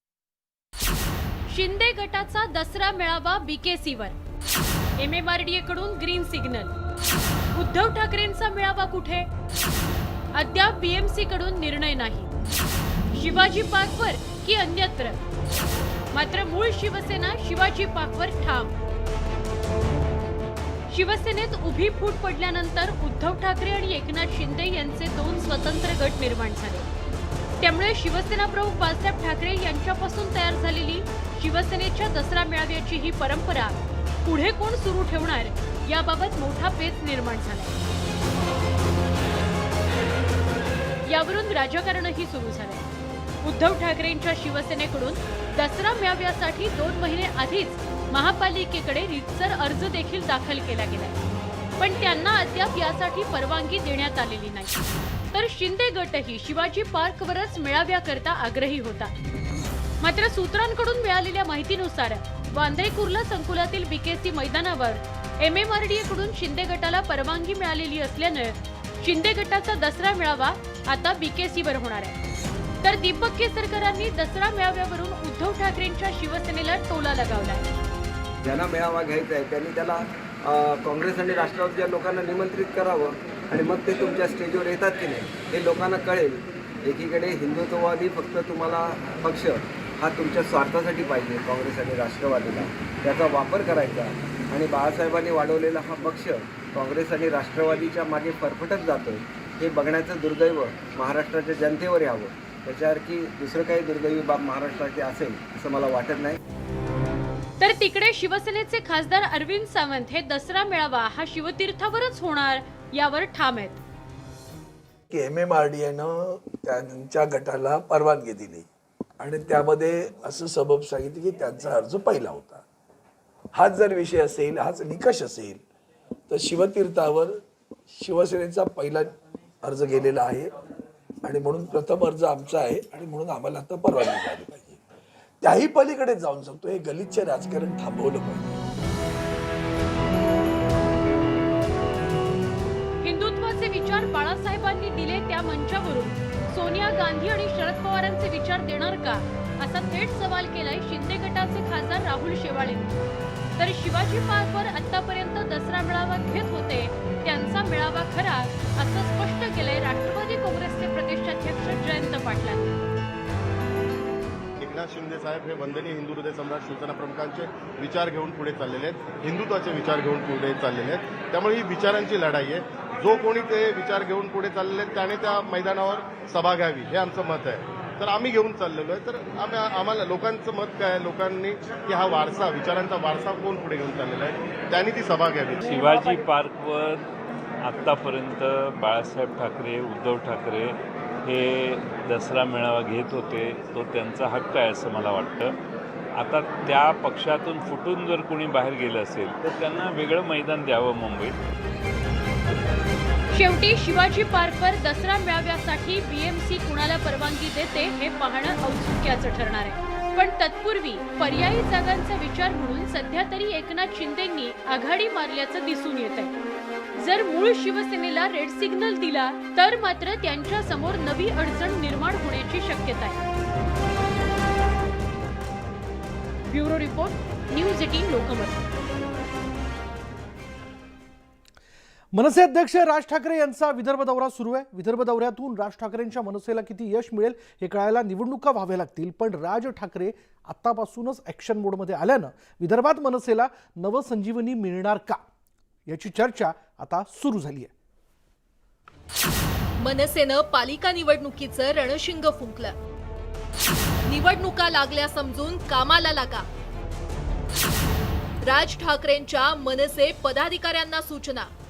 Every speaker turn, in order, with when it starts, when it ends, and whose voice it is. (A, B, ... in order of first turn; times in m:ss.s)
0:01.5-0:04.2 A
0:05.0-0:06.7 A
0:07.5-0:09.3 A
0:10.3-0:12.3 A
0:13.1-0:15.2 A
0:16.1-0:18.7 A
0:20.9-0:26.9 A
0:27.6-0:37.8 A
0:41.0-0:42.9 A
0:43.4-0:51.2 A
0:51.8-0:54.8 A
0:55.3-0:59.1 A
1:00.0-1:12.2 A
1:12.8-1:17.6 A
1:18.4-1:46.4 B
1:47.6-1:53.8 A
1:55.1-1:58.7 C
1:59.2-2:02.6 C
2:03.5-2:05.6 C
2:06.3-2:07.4 C
2:07.9-2:10.5 C
2:11.2-2:14.8 C
2:15.4-2:18.6 C
2:23.0-2:33.0 A
2:33.6-2:42.7 A
2:44.6-3:05.6 D
3:05.6-3:07.1 E
3:07.6-3:15.6 E
3:16.2-3:21.4 E
3:23.3-3:36.3 A
3:37.0-3:43.2 A
3:46.5-3:48.6 A
3:52.1-4:05.2 F
4:05.9-4:07.7 F
4:09.8-4:12.8 G
4:14.1-4:16.5 G
4:18.4-4:21.5 G